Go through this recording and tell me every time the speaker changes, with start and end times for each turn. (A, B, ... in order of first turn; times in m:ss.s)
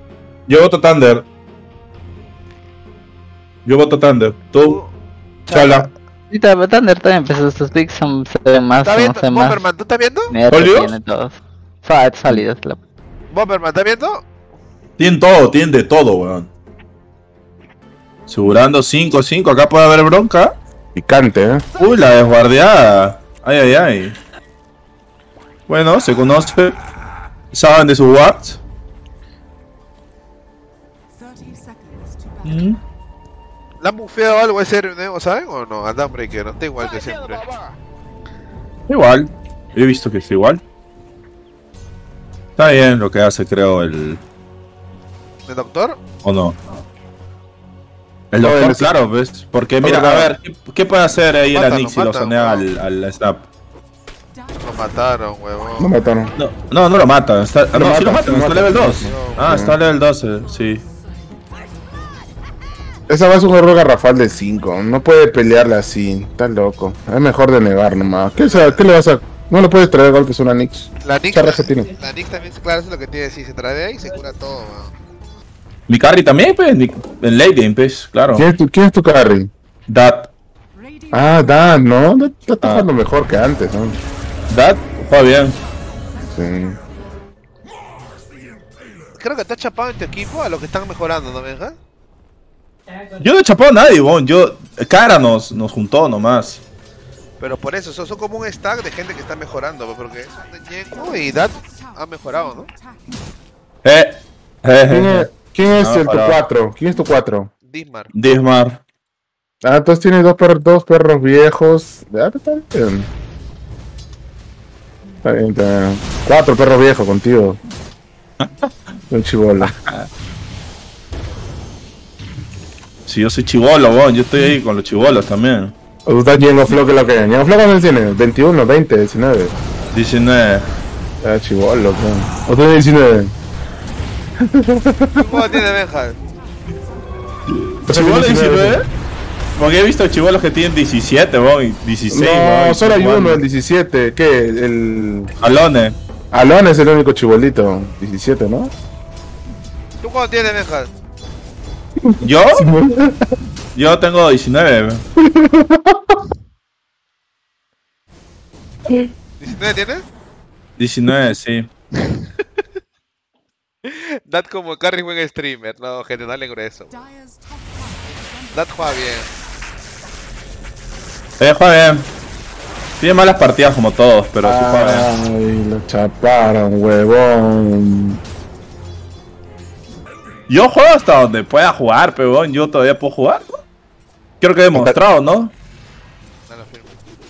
0:00.5-0:01.3 A
0:03.7-0:04.8 A
0:04.6-0:04.9 B
0:05.5-0:05.9 B
0:05.5-0:05.9 A
0:06.3-0:09.7 C
0:08.8-0:10.3 B
0:10.3-0:12.8 C
0:10.5-0:11.0 A
0:13.3-0:14.2 B
0:15.0-0:16.5 A
0:18.3-0:20.6 A
0:21.0-0:21.6 D
0:21.8-0:24.2 A
0:25.7-0:26.8 A
0:27.5-0:28.6 A
0:32.4-0:32.8 A
0:33.8-0:37.5 B
0:38.9-0:40.6 A
0:42.6-0:44.2 A
0:45.5-0:46.0 B
0:46.2-0:46.6 A
0:48.3-0:53.5 A
0:48.4-0:49.0 D
0:49.8-0:50.3 D
0:51.5-0:52.7 B
0:54.6-0:55.9 B
0:55.8-0:56.3 D
0:56.4-1:00.8 A
0:57.7-0:59.8 D
0:58.8-0:59.5 B
1:03.1-1:11.9 D
1:08.4-1:08.8 B
1:11.0-1:14.9 B
1:15.9-1:18.5 A
1:18.3-1:19.5 D
1:19.9-1:20.3 A
1:21.1-1:24.0 D
1:22.6-1:22.9 A
1:24.5-1:25.6 A
1:26.3-1:26.8 D
1:29.2-1:31.8 B
1:33.2-1:36.6 A
1:37.4-1:42.7 B
1:43.8-1:46.4 A
1:44.9-1:47.5 D
1:47.7-1:48.1 B
1:48.1-1:48.8 A
1:49.6-1:53.1 D
1:55.2-1:57.6 D
1:59.1-1:59.7 D
1:59.6-2:00.1 A
2:03.1-2:05.7 A
2:06.1-2:09.6 D
2:09.9-2:10.7 A
2:11.2-2:13.3 D
2:14.4-2:15.3 D
2:15.2-2:16.2 B
2:17.5-2:18.9 A
2:17.9-2:18.8 D
2:19.6-2:23.4 A
2:22.1-2:25.3 D
2:25.4-2:26.0 A
2:26.3-2:28.7 D
2:30.0-2:30.9 B
2:32.0-2:33.2 D
2:32.2-2:32.6 A
2:33.8-2:35.0 A
2:35.2-2:36.2 D
2:39.4-2:40.0 B
2:40.8-2:41.7 A
2:42.0-2:42.3 B
2:43.9-2:47.0 B
2:48.5-2:49.3 B
2:51.4-2:52.1 A
2:53.0-2:55.1 A
2:54.4-2:58.2 D
3:00.5-3:03.6 A
3:04.4-3:05.5 A
3:04.7-3:05.0 D
3:06.5-3:07.0 B